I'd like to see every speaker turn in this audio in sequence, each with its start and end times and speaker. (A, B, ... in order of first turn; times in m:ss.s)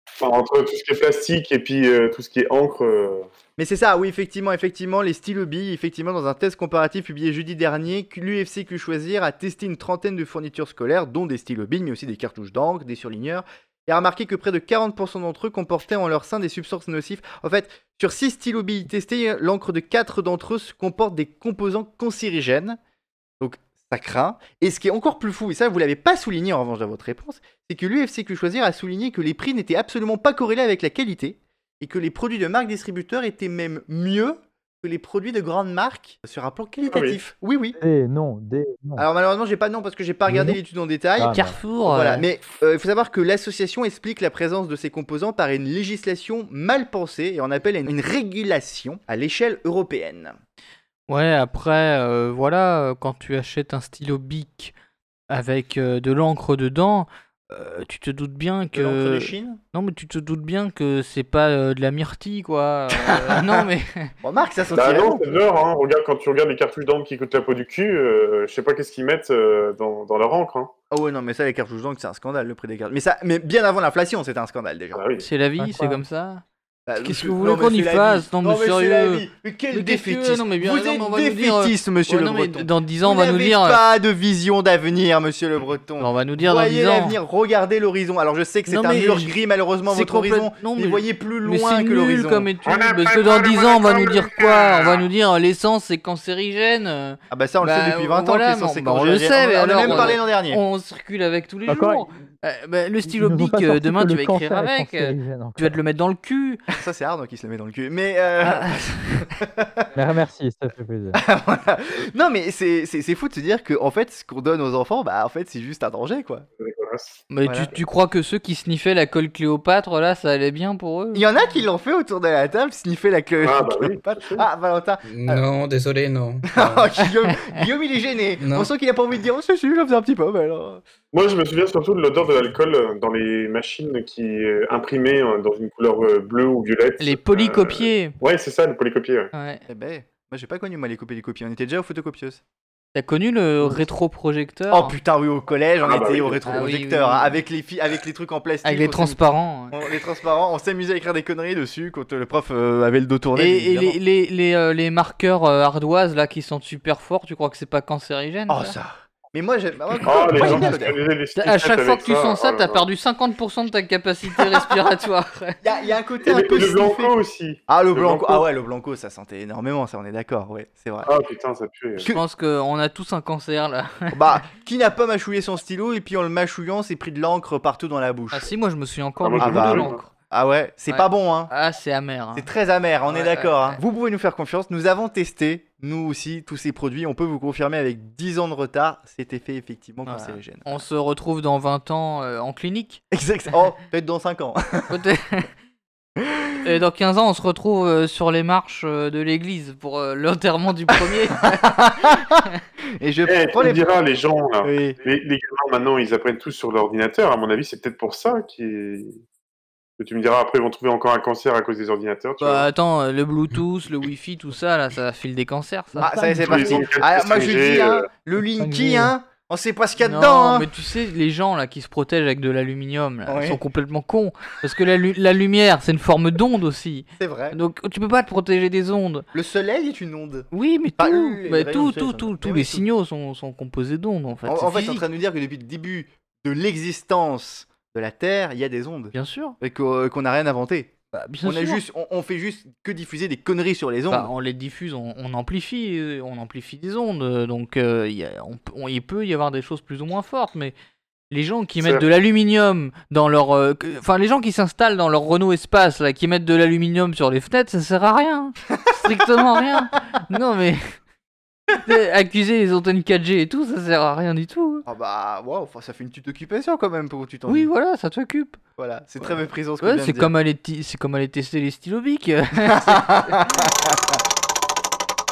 0:00.2-0:03.3 A
0:03.6-0:22.8 B
0:23.4-0:37.8 B
0:36.9-0:37.2 A
0:37.8-0:39.0 C
0:39.0-0:50.4 B
0:40.3-0:40.6 C
0:41.2-0:41.6 C
0:41.3-0:42.2 D
0:51.1-0:54.7 D
0:55.3-1:04.1 D
0:58.7-0:59.6 B
1:03.0-1:03.6 B
1:04.2-1:05.4 B
1:04.7-1:10.7 A
1:10.9-1:15.0 B
1:14.9-1:15.3 A
1:15.2-1:16.4 D
1:15.6-1:16.0 C
1:16.9-1:32.5 B
1:17.0-1:23.8 D
1:26.0-1:27.2 D
1:28.7-1:29.3 D
1:29.9-1:46.6 D
1:32.6-1:35.0 A
1:37.3-1:40.6 B
1:41.7-1:42.1 C
1:43.0-1:45.8 C
1:46.7-1:48.7 B
1:48.4-1:49.3 D
1:49.3-1:49.8 B
1:49.9-1:51.2 C
1:51.1-1:56.4 B
1:56.6-1:57.2 A
1:57.3-2:01.2 D
1:57.4-1:57.7 B
2:01.1-2:05.4 B
2:03.4-2:04.5 A
2:05.0-2:06.9 E
2:06.5-2:10.8 B
2:08.4-2:08.7 E
2:11.1-2:19.3 A
2:17.0-2:18.2 D
2:19.3-2:19.6 D
2:19.7-2:22.4 B
2:22.9-2:24.9 D
2:24.7-2:29.2 B
2:25.8-2:26.6 A
2:26.4-2:27.4 D
2:28.6-2:29.8 D
2:29.7-2:34.0 B
2:33.3-2:38.7 D
2:38.5-2:41.0 B
2:39.9-2:40.8 D
2:40.0-2:42.8 A
2:41.4-2:45.6 D
2:45.6-2:51.1 B
2:46.2-2:48.4 A
2:51.0-2:52.1 A
2:52.0-2:52.2 B
2:52.1-2:54.4 D
2:54.1-2:58.5 B
2:58.3-3:00.1 D
2:59.2-3:00.0 A
2:59.4-3:01.5 B
3:00.9-3:02.5 D
3:02.3-3:10.8 B
3:03.1-3:03.8 D
3:10.0-3:13.0 D
3:13.1-3:15.0 B
3:14.9-3:15.5 D
3:16.2-3:16.6 B
3:16.6-3:22.6 D
3:21.4-3:22.4 B
3:23.0-3:23.9 B
3:23.2-3:29.2 A
3:24.6-3:25.0 B
3:30.0-3:32.7 A
3:32.4-3:36.1 D
3:35.9-3:36.9 C
3:36.0-3:40.7 B
3:36.4-3:38.1 A
3:38.6-3:39.1 C
3:40.0-3:49.2 D
3:43.3-3:43.6 B
3:47.2-3:47.6 B
3:49.3-3:52.8 B
3:50.5-3:55.0 D
3:54.4-4:04.3 B
3:59.1-3:59.6 D
4:01.1-4:01.8 D
4:04.1-4:10.7 D
4:11.3-4:20.9 D
4:11.8-4:12.0 A
4:18.8-4:19.3 B
4:21.7-4:24.8 D
4:24.8-4:27.7 B
4:27.5-4:28.6 D
4:28.8-4:30.3 B
4:29.8-4:33.6 D
4:32.6-4:34.2 B